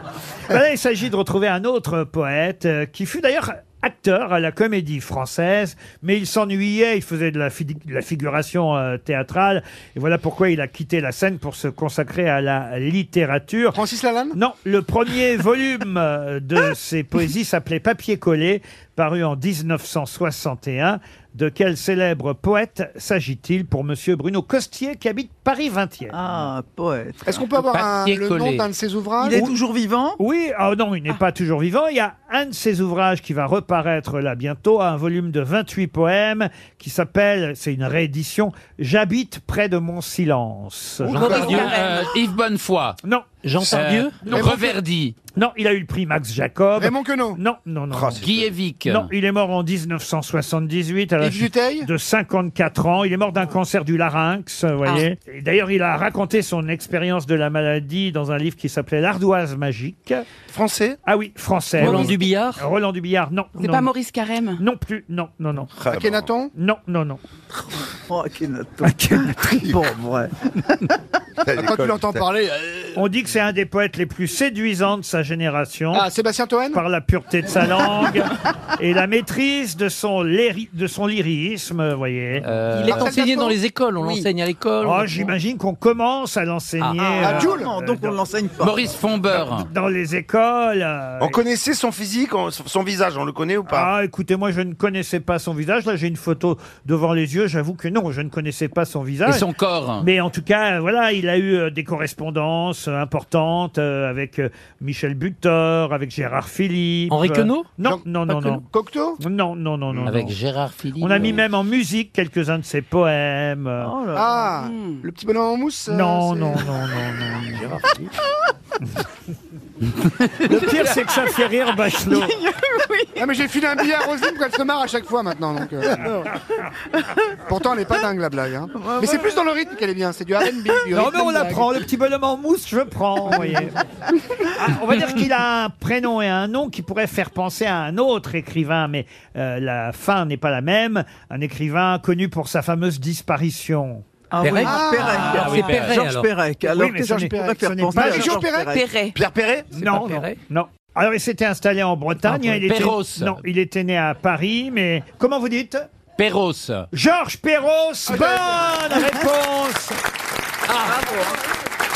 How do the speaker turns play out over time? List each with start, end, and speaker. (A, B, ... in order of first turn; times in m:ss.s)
0:00.5-0:13.8 A
0:13.7-0:14.4 B
0:14.3-0:26.2 A
0:26.1-0:27.4 C
0:27.2-0:29.5 B
0:27.6-0:28.7 D
0:29.2-0:30.2 C
0:30.2-0:41.7 A
0:41.1-0:41.9 E
0:41.2-0:43.0 D
0:41.4-0:42.1 F
0:43.0-0:44.6 A
0:43.4-0:44.3 E
0:43.6-0:45.2 D
0:44.3-0:44.8 B
0:45.3-0:48.2 A
0:46.8-0:47.4 B
0:47.9-0:48.5 G
0:48.2-0:49.1 D
0:48.9-1:00.3 A
0:51.2-0:51.9 B
0:54.8-0:55.1 F
1:00.5-1:01.0 G
1:01.1-1:03.9 A
1:01.8-1:02.7 E
1:03.6-1:04.6 F
1:04.6-1:05.7 A
1:05.7-1:06.3 G
1:05.9-1:06.5 B
1:06.5-1:07.2 A
1:08.1-1:10.9 C
1:08.8-1:09.8 A
1:11.4-1:12.2 G
1:11.5-1:13.0 B
1:13.0-1:16.1 A
1:15.9-1:16.8 B
1:16.7-1:22.5 A
1:22.4-1:23.2 D
1:22.7-1:25.3 E
1:22.8-1:23.6 B
1:24.0-1:24.2 F
1:24.8-1:28.1 A
1:27.0-1:28.9 C
1:27.2-1:27.7 B
1:28.6-1:29.7 D
1:29.3-1:31.4 A
1:31.2-1:33.9 G
1:33.7-1:39.4 A
1:39.2-1:40.1 D
1:40.0-1:48.6 A
1:47.1-1:47.8 E
1:47.8-1:49.2 B
1:49.2-1:50.3 A
1:50.0-1:51.4 D
1:51.0-1:54.0 A
1:53.8-1:54.6 C
1:54.1-1:56.7 B
1:54.6-1:55.0 F
1:55.9-1:57.9 A
1:57.6-1:58.0 D
2:00.4-2:02.3 A
2:02.5-2:03.1 F
2:03.2-2:06.3 B
2:07.5-2:11.7 B
2:08.7-2:09.4 C
2:10.9-2:13.8 A
2:14.5-2:24.0 A
2:24.3-2:28.9 C
2:24.4-2:26.3 E
2:24.6-2:25.6 B
2:25.0-2:26.1 D
2:26.7-2:28.4 A
2:26.8-2:28.8 B
2:28.7-2:29.2 F
2:29.1-2:29.8 G
2:29.8-2:30.4 E
2:29.8-2:35.9 A
2:32.2-2:33.4 D
2:36.2-2:36.9 D
2:36.9-2:40.0 A
2:38.1-2:38.7 B